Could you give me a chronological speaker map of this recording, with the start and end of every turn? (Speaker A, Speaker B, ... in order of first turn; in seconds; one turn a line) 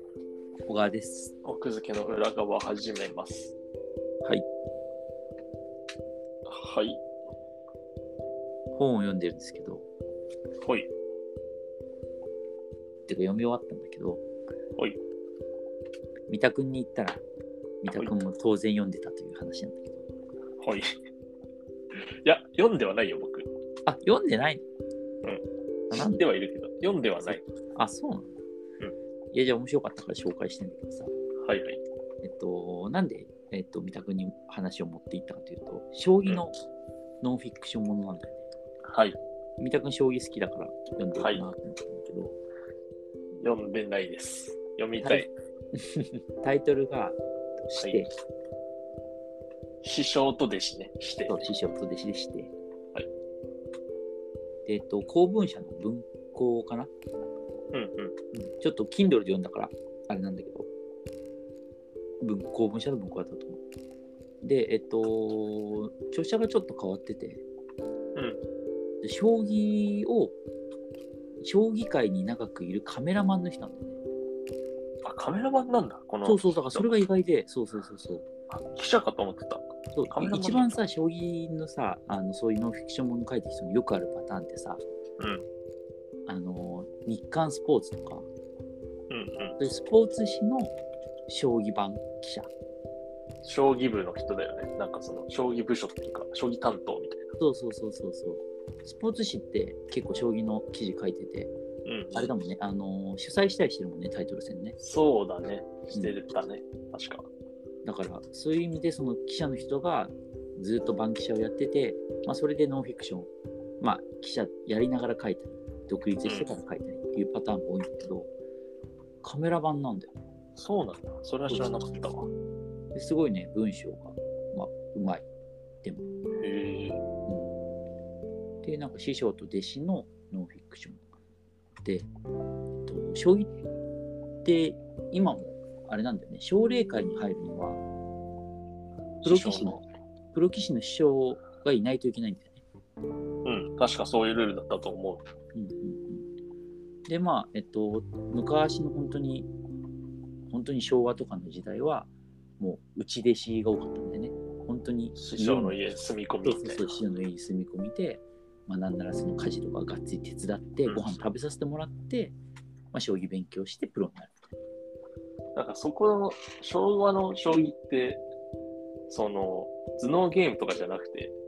Speaker A: 0.7-1.3
Speaker B: 1.4-3.5
Speaker B: 6.5-7.0
Speaker A: 8.7-9.9
Speaker B: 10.6-10.9
Speaker A: 13.1-14.2
Speaker A: 16.3-17.2
Speaker A: 17.8-20.1
Speaker B: 20.6-21.0
Speaker B: 22.0-23.5
Speaker A: 23.9-24.7
Speaker B: 25.2-27.4
Speaker A: 25.9-26.2
Speaker A: 27.2-28.4
Speaker A: 29.3-31.1
Speaker B: 31.4-31.8
Speaker A: 32.2-36.6
Speaker A: 37.2-38.4
Speaker B: 38.9-39.2
Speaker A: 39.6-42.4
Speaker B: 41.2-41.5
Speaker B: 43.4-45.3
Speaker A: 45.0-47.2
Speaker A: 47.7-48.1
Speaker B: 47.8-48.0
Speaker B: 49.8-51.5
Speaker A: 51.3-52.5
Speaker A: 54.7-56.9
Speaker B: 57.7-58.1
Speaker A: 58.3-60.7
Speaker A: 62.2-63.6
Speaker A: 64.4-67.4
Speaker A: 69.0-70.3
Speaker A: 71.4-74.0
Speaker B: 75.0-76.9
Speaker A: 76.2-78.2
Speaker B: 78.5-80.7
Speaker A: 80.0-84.8
Speaker B: 85.2-85.5
Speaker A: 86.3-88.3
Speaker B: 89.1-89.6
Speaker A: 89.6-90.7
Speaker A: 91.3-92.5
Speaker B: 93.4-97.3
Speaker A: 97.4-101.5
Speaker B: 101.8-102.3
Speaker A: 102.2-104.8
Speaker B: 104.8-107.3
Speaker A: 107.8-113.3
Speaker A: 113.8-118.3
Speaker B: 116.3-116.6
Speaker A: 119.2-120.1
Speaker B: 120.6-122.3
Speaker A: 121.5-122.0
Speaker A: 122.9-125.3
Speaker B: 126.4-127.0
Speaker A: 127.3-127.5
Speaker A: 128.6-131.0
Speaker A: 131.8-132.1
Speaker A: 132.9-133.5
Speaker A: 134.4-137.8
Speaker B: 139.2-139.8
Speaker A: 139.2-142.6
Speaker B: 143.4-145.2
Speaker A: 145.6-146.2
Speaker A: 147.1-149.5
Speaker A: 150.5-155.8
Speaker B: 155.2-156.8
Speaker A: 156.4-162.3
Speaker B: 160.9-161.2
Speaker A: 162.9-164.4
Speaker B: 165.6-168.2
Speaker B: 169.1-171.3